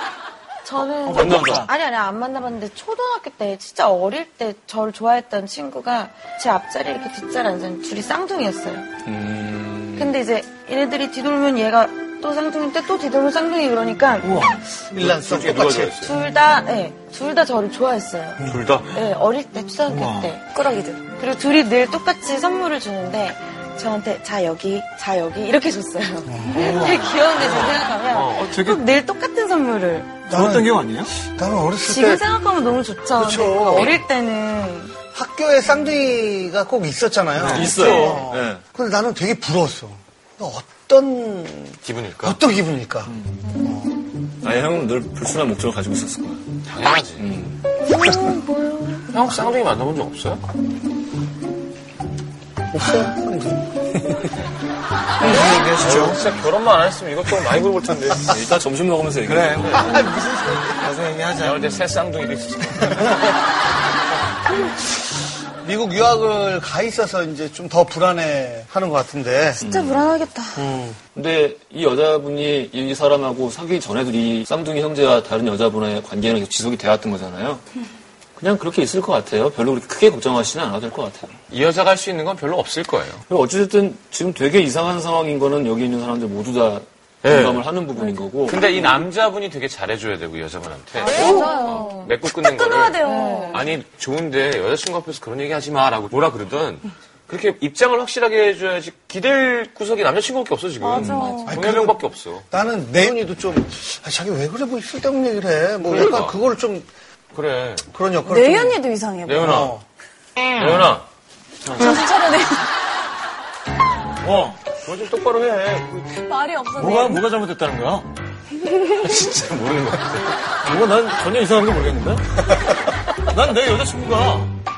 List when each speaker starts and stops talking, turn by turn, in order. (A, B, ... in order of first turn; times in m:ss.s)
0:00.6-0:08.9 A
0:01.0-0:01.7 B
0:01.1-0:01.6 C
0:09.1-0:10.1 C
0:10.0-0:14.5 A
0:14.2-0:14.7 B
0:14.9-0:16.0 D
0:14.9-0:16.2 E
0:16.0-0:20.4 A
0:18.4-0:18.7 D
0:18.4-0:19.0 E
0:19.9-0:20.3 B
0:20.5-0:21.0 F
0:21.1-0:30.3 A
0:26.3-0:27.0 D
0:26.5-0:27.8 B
0:27.4-0:28.5 E
0:30.3-0:31.1 B
0:30.3-0:32.2 D
0:31.8-0:35.0 A
0:33.1-0:33.9 D
0:35.1-0:44.0 D
0:37.4-0:38.6 C
0:37.4-0:37.7 B
0:37.7-0:38.2 A
0:41.8-0:42.4 E
0:44.4-0:46.4 C
0:46.7-0:47.3 E
0:47.2-0:47.6 C
0:47.9-0:49.1 A
0:49.1-0:50.4 E
0:52.7-0:53.7 D
0:55.2-0:56.2 B
0:55.8-0:58.4 E
0:58.3-1:00.1 C
0:59.2-1:00.1 B
0:59.6-1:00.0 E
0:59.9-1:00.7 D
1:00.6-1:01.7 B
1:01.4-1:03.3 E
1:05.6-1:09.6 D
1:09.6-1:10.6 F
1:09.6-1:10.2 C
1:10.6-1:11.0 D
1:11.2-1:17.6 C
1:18.4-1:21.3 C
1:21.5-1:23.3 E
1:23.3-1:28.6 C
1:27.2-1:27.7 E
1:28.4-1:42.5 E
1:31.0-1:33.7 F
1:31.7-1:32.1 A
1:33.0-1:33.6 A
1:40.8-1:41.6 F
1:40.9-1:41.4 C
1:41.5-1:42.0 D
1:42.5-1:46.9 D
1:45.8-1:46.4 E
1:47.3-1:47.8 E
1:47.9-1:48.8 D
1:48.2-1:49.6 F
1:49.2-1:49.7 E
1:49.3-1:49.8 D
1:50.6-1:51.1 E
1:51.7-1:52.7 F
1:54.2-1:54.6 B
1:54.8-1:56.2 E
1:56.1-1:57.3 F
1:56.7-1:58.1 B
1:58.9-2:00.4 E
2:00.6-2:02.5 B
2:03.3-2:04.5 B